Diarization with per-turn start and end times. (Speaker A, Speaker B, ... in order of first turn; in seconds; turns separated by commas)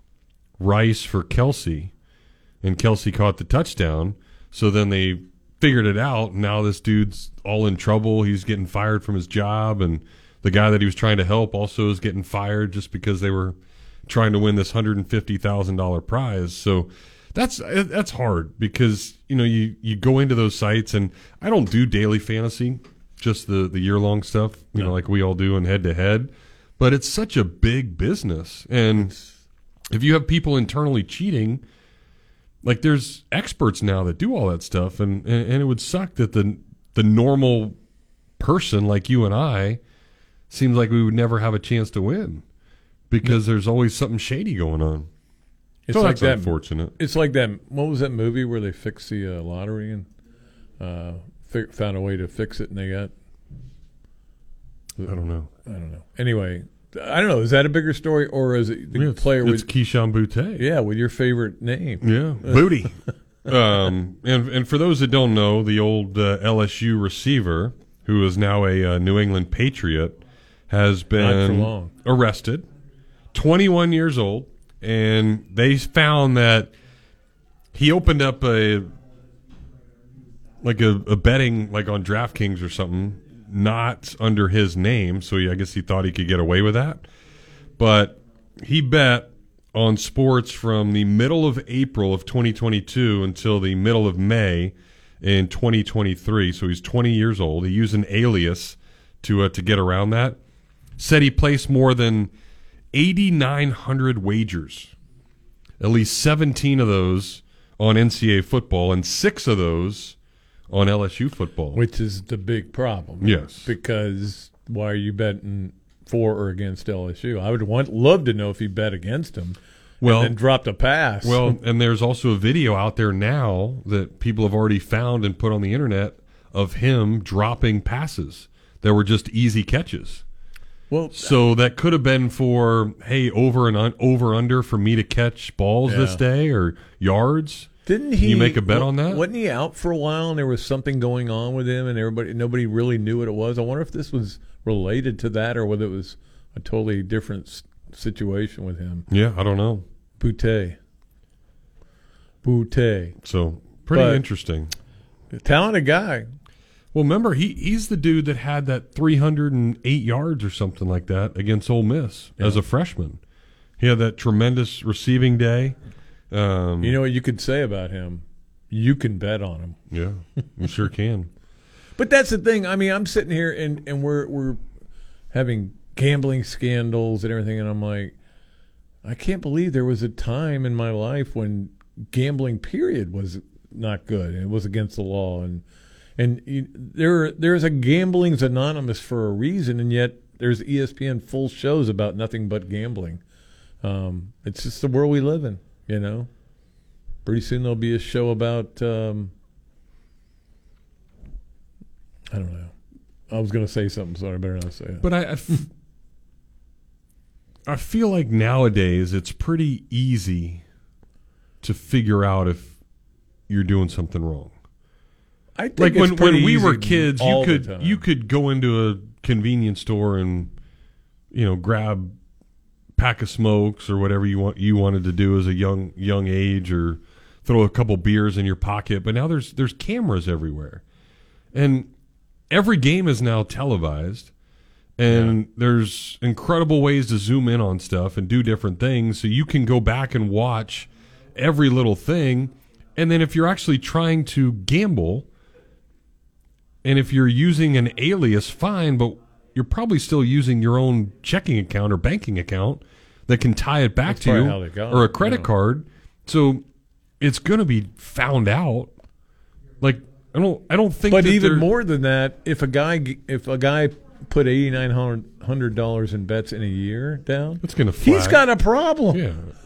Speaker A: 0.6-1.9, Speaker A: 2.6-13.6, Speaker A: 14.1-29.1, Speaker A: 29.9-31.6, Speaker A: 32.6-37.7, Speaker A: 38.4-39.8, Speaker A: 40.5-42.4, Speaker A: 43.1-45.1, Speaker B: 45.9-50.0, Speaker A: 45.9-46.9, Speaker B: 50.8-53.1, Speaker B: 55.0-59.7, Speaker A: 55.1-55.5, Speaker A: 58.9-60.6, Speaker B: 60.5-62.9, Speaker A: 62.0-62.9, Speaker A: 63.5-72.6, Speaker B: 71.2-71.9, Speaker A: 73.3-76.7, Speaker A: 77.7-78.9, Speaker A: 80.6-87.0, Speaker A: 87.8-100.4, Speaker A: 101.0-102.3, Speaker A: 102.9-104.9, Speaker A: 105.8-110.1, Speaker A: 110.7-111.8, Speaker B: 111.7-121.6, Speaker A: 113.2-113.7, Speaker A: 120.0-120.3, Speaker A: 121.2-130.2, Speaker B: 130.9-131.4, Speaker A: 131.2-137.7, Speaker B: 135.8-136.2, Speaker B: 137.8-149.0, Speaker A: 138.2-139.2, Speaker A: 149.1-149.8, Speaker B: 150.2-150.8, Speaker B: 152.4-153.2, Speaker A: 153.2-154.7, Speaker B: 153.9-154.2, Speaker B: 155.3-156.3, Speaker A: 156.9-163.2, Speaker A: 163.8-165.7, Speaker A: 166.3-166.9, Speaker B: 166.8-169.8, Speaker A: 169.9-171.3, Speaker B: 172.0-174.6, Speaker B: 175.3-178.1, Speaker B: 179.0-185.6, Speaker B: 186.2-193.2, Speaker B: 193.8-196.3, Speaker B: 197.2-199.3, Speaker B: 202.3-202.7, Speaker B: 203.3-205.6, Speaker A: 205.0-205.6, Speaker A: 207.7-210.6, Speaker A: 211.6-212.7, Speaker A: 213.5-214.5, Speaker B: 215.6-218.0, Speaker A: 215.8-220.5, Speaker A: 221.3-222.1, Speaker A: 223.0-230.8, Speaker A: 231.5-231.9, Speaker A: 232.5-234.3, Speaker A: 235.0-245.2, Speaker A: 246.8-256.6, Speaker B: 254.1-255.5, Speaker A: 257.2-258.9, Speaker A: 259.8-261.7, Speaker B: 261.1-269.2, Speaker A: 267.6-268.4, Speaker A: 269.1-269.5